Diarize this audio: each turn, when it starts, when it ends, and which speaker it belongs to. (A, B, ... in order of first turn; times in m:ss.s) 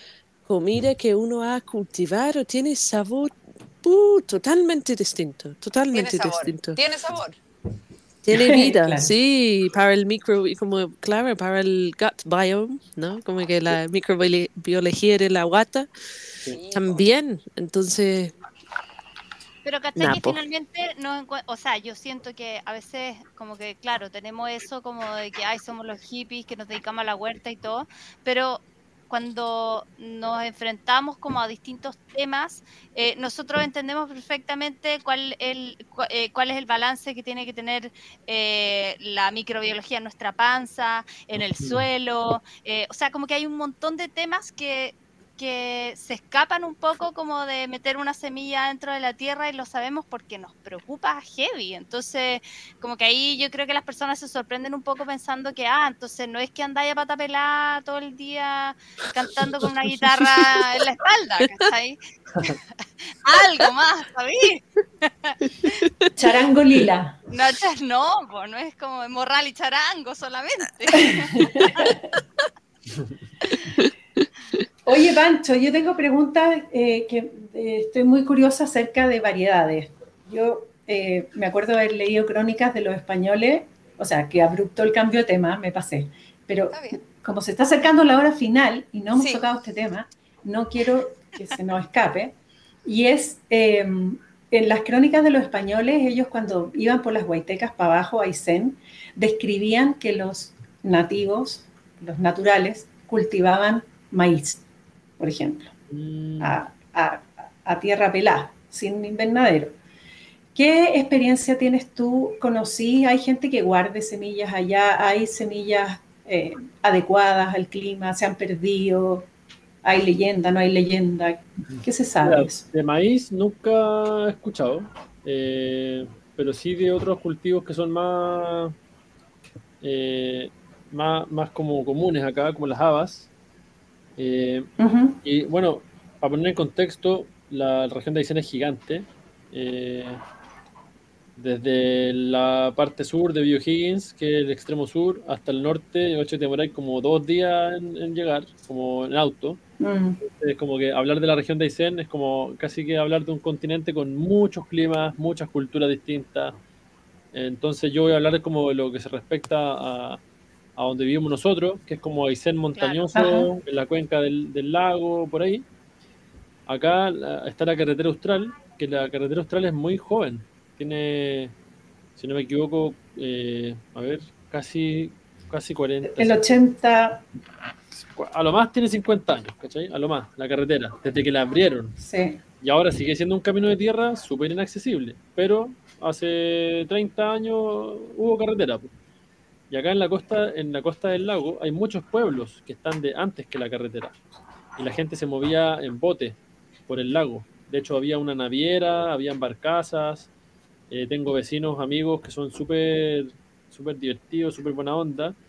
0:00.4-0:06.8 A
0:05.9-0:07.4 B
0:08.2-0:15.9 A
0:08.3-0:09.1 C
0:16.5-0:17.1 B
0:16.7-0:18.3 A
0:19.6-1:02.6 D
0:19.9-0:20.4 A
0:41.6-0:41.8 E
1:03.2-1:05.8 D
1:05.6-1:06.1 A
1:06.1-1:07.2 C
1:07.3-1:11.9 D
1:10.9-1:12.0 C
1:13.5-1:14.3 A
1:14.8-1:44.6 C
1:26.7-1:27.0 B
1:29.1-1:29.4 B
1:45.2-1:45.7 C
1:45.9-1:46.6 E
1:46.4-1:49.8 C
1:50.5-1:59.3 C
1:59.8-2:02.6 C
2:01.7-2:08.7 E
2:09.8-2:13.3 E
2:14.2-2:14.7 E
2:14.8-2:15.2 C
2:15.2-2:20.2 E
2:21.4-2:29.6 E
2:29.8-2:30.2 C
2:30.2-2:36.6 E
2:37.3-2:40.2 E
2:40.8-2:45.6 E
2:42.8-2:43.1 D
2:43.1-2:43.5 C
2:46.7-2:51.5 E
2:52.2-2:56.5 E
2:56.0-2:57.2 C
2:57.9-3:02.0 E
3:02.0-3:02.4 C
3:02.6-3:08.9 E
3:09.7-3:14.2 E
3:14.8-3:16.4 E
3:16.9-3:20.3 E
3:20.9-3:25.4 E